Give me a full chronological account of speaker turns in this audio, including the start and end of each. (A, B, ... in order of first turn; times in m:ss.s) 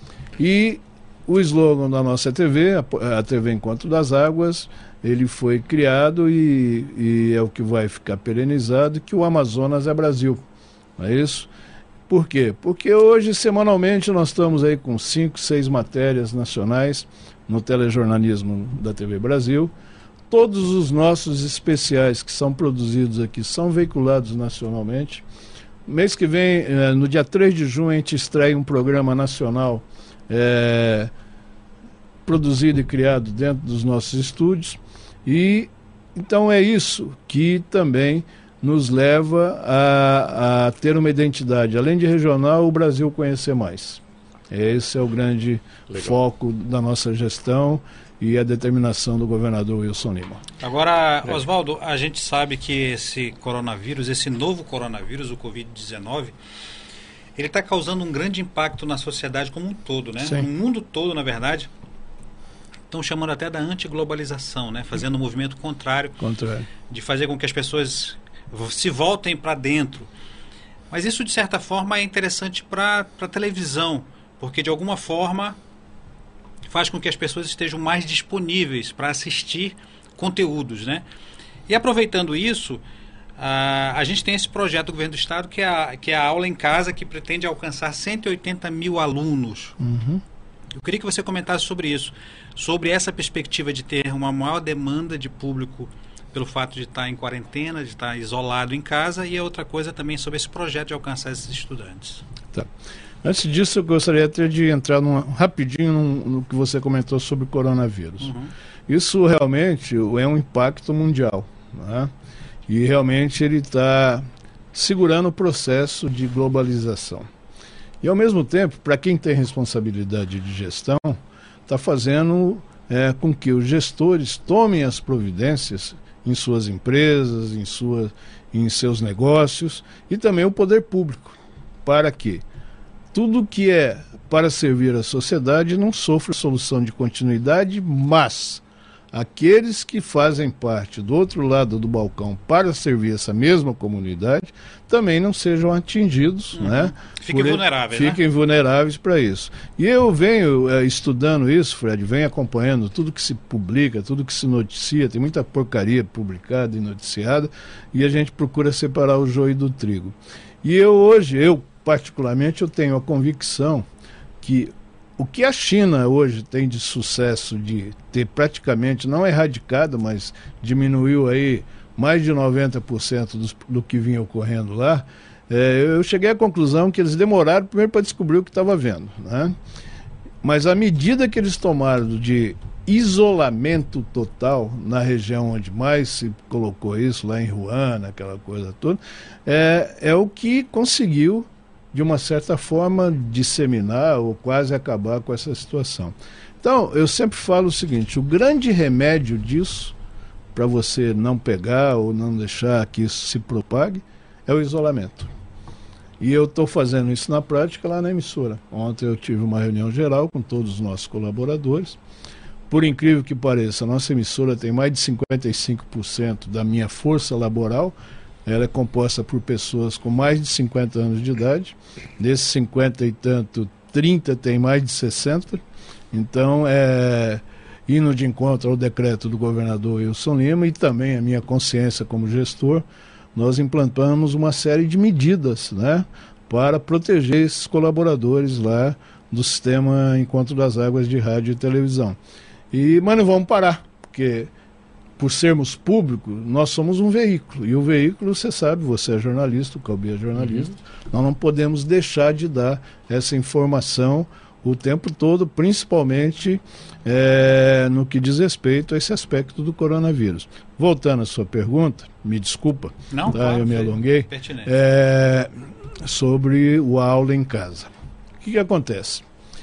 0:00.4-0:10.4 A
0:11.0-0:11.5 A
0:12.1-0:19.7 A
0:20.3-0:25.2 A
0:25.9-0:31.1 A
0:32.3-0:50.4 A
0:50.6-0:56.4 B
0:57.4-1:01.7 B
1:00.2-1:00.5 A
1:02.9-1:06.2 B
1:06.2-1:06.7 A
1:06.9-1:10.1 B
1:10.9-1:15.6 B
1:16.7-1:21.0 B
1:21.7-1:22.8 B
1:23.4-1:29.8 B
1:29.8-1:30.2 A
1:30.8-1:42.2 B
1:43.2-1:48.3 A
1:48.2-1:48.5 B
1:48.9-1:52.1 A
1:52.7-1:57.3 A
1:58.0-2:12.4 A
2:13.1-2:43.9 A
2:26.5-2:28.2 B
2:44.4-2:59.6 A
3:00.4-3:20.0 A
3:20.5-3:25.3 A
3:26.2-3:32.0 A
3:32.7-3:38.0 A
3:38.5-4:02.2 A
4:02.7-4:04.5 A
4:05.2-4:25.5 A
4:23.1-4:24.7 B
4:26.0-4:29.2 A